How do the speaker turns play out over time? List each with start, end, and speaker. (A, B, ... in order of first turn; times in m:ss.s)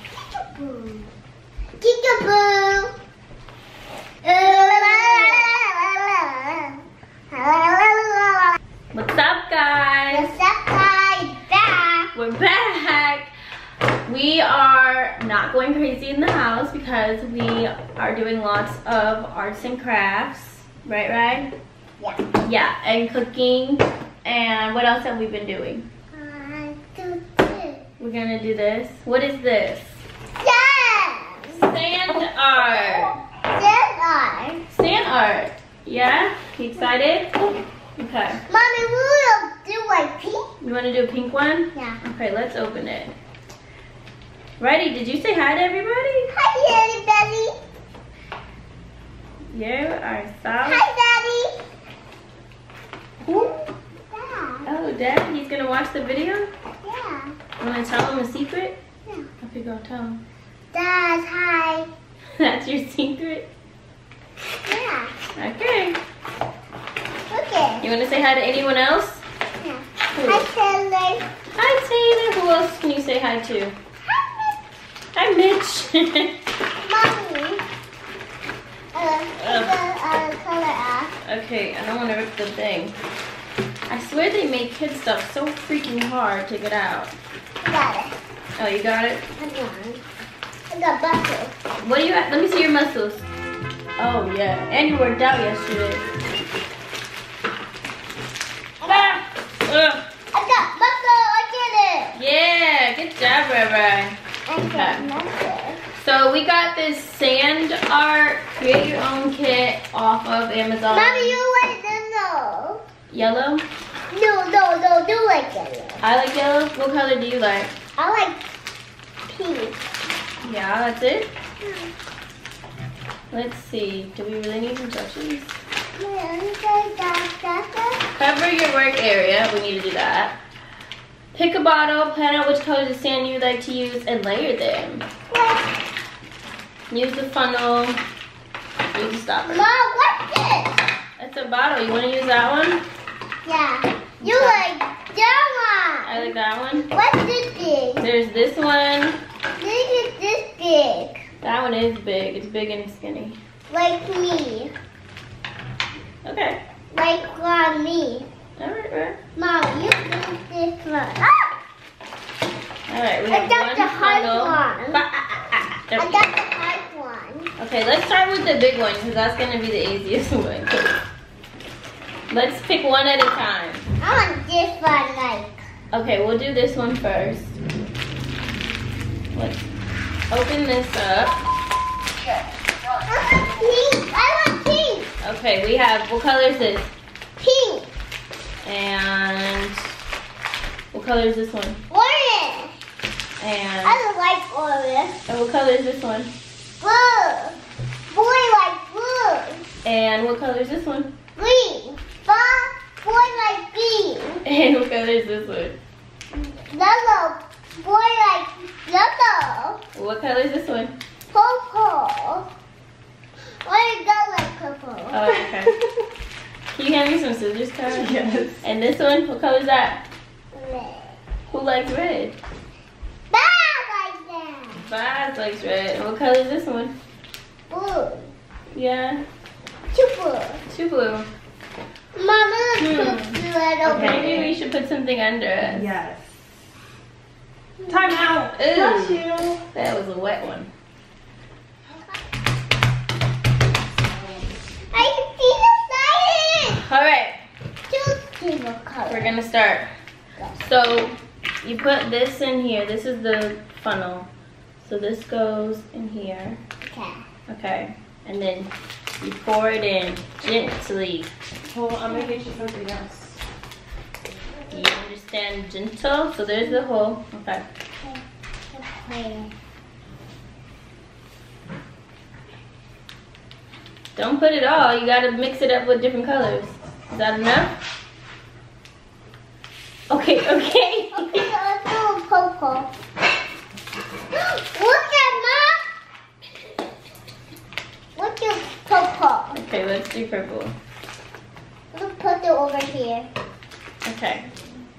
0:00.4-0:01.1 A
0:01.8-0:02.9 A
0:04.2-0:08.6 A
0:04.4-0:05.5 B
0:08.9-0:10.3 B
0:10.1-0:12.1 A
0:12.1-0:13.3 B
0:14.0-0:21.5 B
0:22.4-0:25.8 B
0:26.1-0:27.8 A
0:28.0-0:30.0 B
0:30.4-0:31.6 A
0:31.5-0:33.1 B
0:32.7-0:34.6 A
0:34.7-0:37.3 B
0:38.0-0:38.4 B
0:38.5-0:40.4 A
0:40.6-0:43.1 B
0:41.7-0:42.0 A
0:44.6-0:46.3 B
0:46.3-0:47.6 A
0:49.5-0:50.8 B
0:50.6-0:51.6 A
0:53.2-0:53.5 B
0:53.3-0:54.7 A
0:54.6-0:56.5 B
0:56.8-0:57.3 A
0:57.6-0:58.8 B
0:59.4-1:00.2 B
1:00.7-1:01.9 A
1:02.4-1:03.4 B
1:04.6-1:05.1 A
1:05.4-1:06.0 B
1:07.3-1:07.9 A
1:07.8-1:09.2 B
1:09.6-1:11.2 A
1:10.1-1:10.4 B
1:11.6-1:13.7 B
1:14.0-1:14.6 A
1:15.1-1:16.3 B
1:16.8-1:17.6 A
1:18.9-1:21.1 A
1:19.4-1:19.7 B
1:21.2-1:22.9 B
1:23.9-1:27.1 B
1:27.6-1:28.2 A
1:28.6-1:29.2 B
1:29.4-1:30.0 A
1:30.7-1:31.5 A
1:31.8-1:33.2 B
1:34.0-1:36.0 B
1:38.8-1:39.2 A
1:38.8-1:40.0 B
1:40.3-1:42.2 A
1:42.2-1:44.2 B
1:44.5-1:45.8 A
1:44.7-1:45.0 B
1:46.0-1:51.4 B
1:50.9-1:52.8 A
1:53.1-1:53.6 B
1:54.1-1:56.0 A
1:56.0-1:57.7 B
1:58.0-1:58.4 A
1:59.3-1:59.8 A
2:00.4-2:01.3 B
2:01.6-2:01.9 A
2:03.3-2:05.5 B
2:06.0-2:08.0 A
2:08.2-2:10.3 B
2:11.3-2:15.0 B
2:15.3-2:15.7 A
2:16.9-2:18.0 B
2:18.9-2:19.6 B
2:19.4-2:20.8 A
2:21.2-2:22.8 B
2:23.4-2:26.3 A
2:24.2-2:24.6 B
2:26.0-2:26.9 B
2:26.8-2:28.0 A
2:28.0-2:29.2 B
2:29.6-2:31.2 A
2:31.4-2:33.4 B
2:33.7-2:34.7 A
2:36.2-2:36.6 B
2:36.9-2:38.3 A
2:38.6-2:39.2 B
2:39.4-2:41.6 A
2:42.9-2:46.2 B
2:43.3-2:45.0 A
2:46.0-2:47.5 A
2:47.6-2:51.0 B
2:52.3-2:53.8 B
2:54.0-2:55.6 A
2:55.9-2:57.6 B
2:59.3-2:59.7 B
3:00.3-3:01.4 B
3:03.1-3:05.1 A
3:05.2-3:06.9 B
3:07.4-3:07.9 A
3:08.6-3:09.8 B
3:10.9-3:11.8 B
3:11.9-3:12.7 A
3:13.4-3:14.0 B
3:13.8-3:15.2 A
3:15.3-3:16.3 B
3:16.8-3:17.6 A
3:18.1-3:19.7 A
3:19.8-3:21.1 B
3:21.4-3:24.4 A
3:24.4-3:25.8 B
3:26.3-3:29.8 A
3:29.9-3:30.9 B
3:31.3-3:32.5 A
3:33.6-3:35.4 A
3:35.1-3:35.7 B
3:36.7-3:40.0 B
3:37.9-3:38.6 C
3:40.5-3:41.2 A
3:41.5-3:42.4 B
3:43.3-3:44.8 A
3:44.8-3:46.9 B
3:47.7-3:48.3 A
3:48.7-3:49.2 B
3:49.9-3:50.6 A
3:50.7-3:51.3 B
3:52.1-3:54.4 A
3:52.8-3:53.2 B
3:53.8-3:55.9 B
3:53.9-3:54.5 C
3:55.6-3:56.4 C
3:57.8-3:58.1 A
3:57.9-3:59.6 C
3:58.5-4:00.7 B
4:04.0-4:04.5 C
4:04.9-4:06.8 A
4:06.7-4:07.4 B
4:07.9-4:09.3 A
4:09.1-4:09.9 B
4:10.6-4:14.3 B
4:14.8-4:16.6 B
4:16.8-4:17.2 A
4:17.5-4:18.7 B
4:19.2-4:21.3 B
4:21.7-4:23.4 C
4:24.7-4:27.6 B
4:28.0-4:29.5 A
4:34.2-4:37.7 B
4:40.1-4:41.5 B
4:41.1-4:42.9 A
4:44.3-4:45.8 A
4:48.2-4:49.6 A
4:49.5-4:50.7 B
4:51.9-4:53.3 A
4:54.0-4:54.4 B